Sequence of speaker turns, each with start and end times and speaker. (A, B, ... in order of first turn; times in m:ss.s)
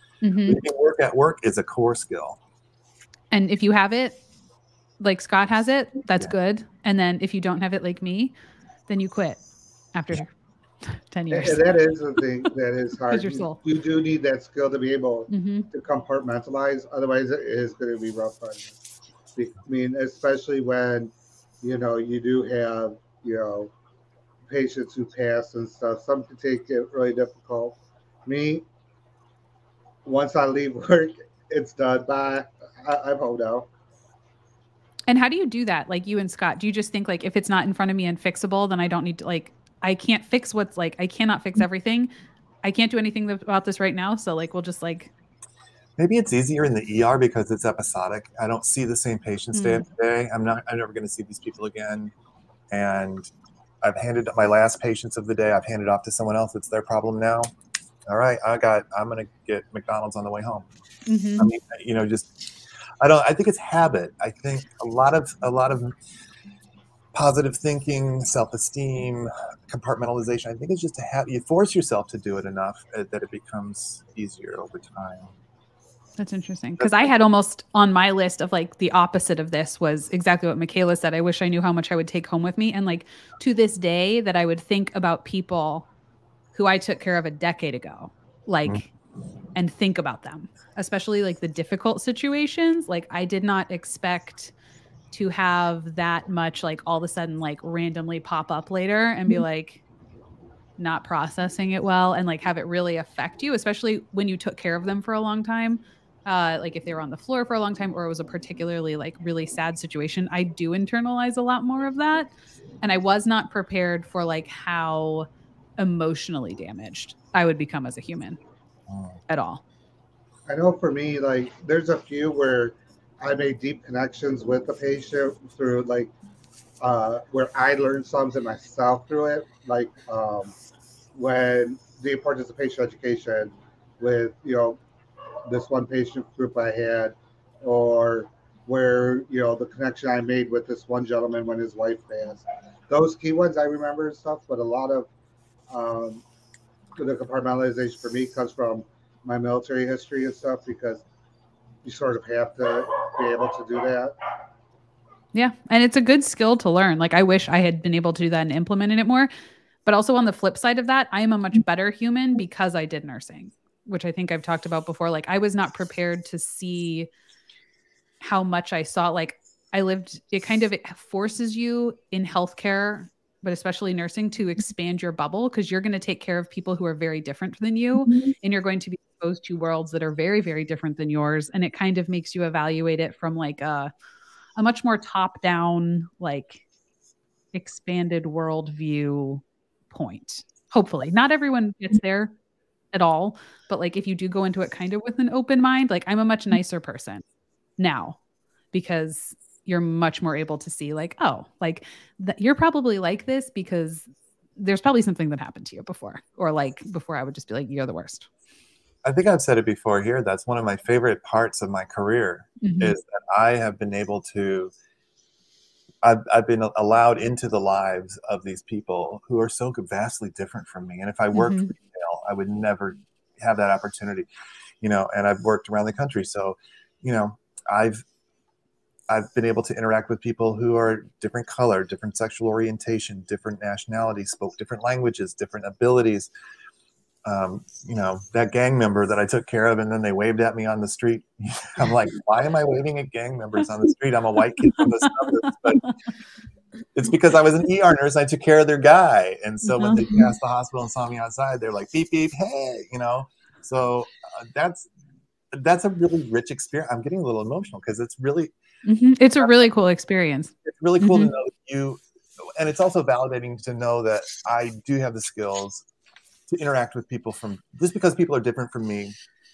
0:00.2-0:00.6 A
0:00.4-0:02.4 B
0:03.3-0:04.2 A
0:05.0-0:08.3 A
0:08.9-0:09.4 A
0:09.9-0:10.3 A
0:10.9-0:11.7 A
0:11.3-0:18.7 C
0:13.1-0:13.6 A
0:15.3-0:15.7 A
0:19.4-0:23.7 C
0:24.5-0:28.6 C
0:30.0-0:33.7 C
0:35.1-0:42.1 A
0:42.6-0:45.1 A
0:46.0-0:52.1 B
0:49.5-0:49.8 A
0:52.7-0:53.3 B
0:53.8-0:57.5 B
0:58.0-1:00.7 B
1:01.0-1:01.5 A
1:01.4-1:02.3 B
1:03.0-1:05.9 B
1:07.1-1:15.3 B
1:16.2-1:25.9 A
1:16.8-1:17.1 B
1:26.5-1:28.9 A
1:29.6-1:34.5 A
1:35.1-1:39.8 A
1:40.8-1:58.4 A
1:58.9-1:59.2 B
1:59.3-1:59.6 A
2:00.5-2:06.1 C
2:06.8-2:10.5 C
2:11.1-2:14.8 C
2:15.4-2:25.1 C
2:25.7-2:26.2 C
2:27.0-2:31.0 C
2:31.8-2:34.1 C
2:35.3-2:39.3 A
2:39.9-2:47.1 A
2:48.2-3:03.9 A
3:04.6-3:06.6 A
3:07.5-3:12.3 A
3:12.9-3:17.2 A
3:17.8-3:18.2 A
3:18.7-3:24.0 A
3:24.6-3:28.3 A
3:29.0-3:34.7 B
3:32.6-3:33.0 A
3:36.0-3:44.3 B
3:41.3-3:41.7 A
3:44.8-3:48.0 B
3:49.1-3:56.3 B
3:57.2-4:05.8 B
4:07.0-4:14.9 B
4:09.7-4:10.3 A
4:15.5-4:18.5 B
4:18.8-4:21.3 A
4:19.4-4:19.6 B
4:20.6-4:25.8 B
4:26.5-4:29.1 B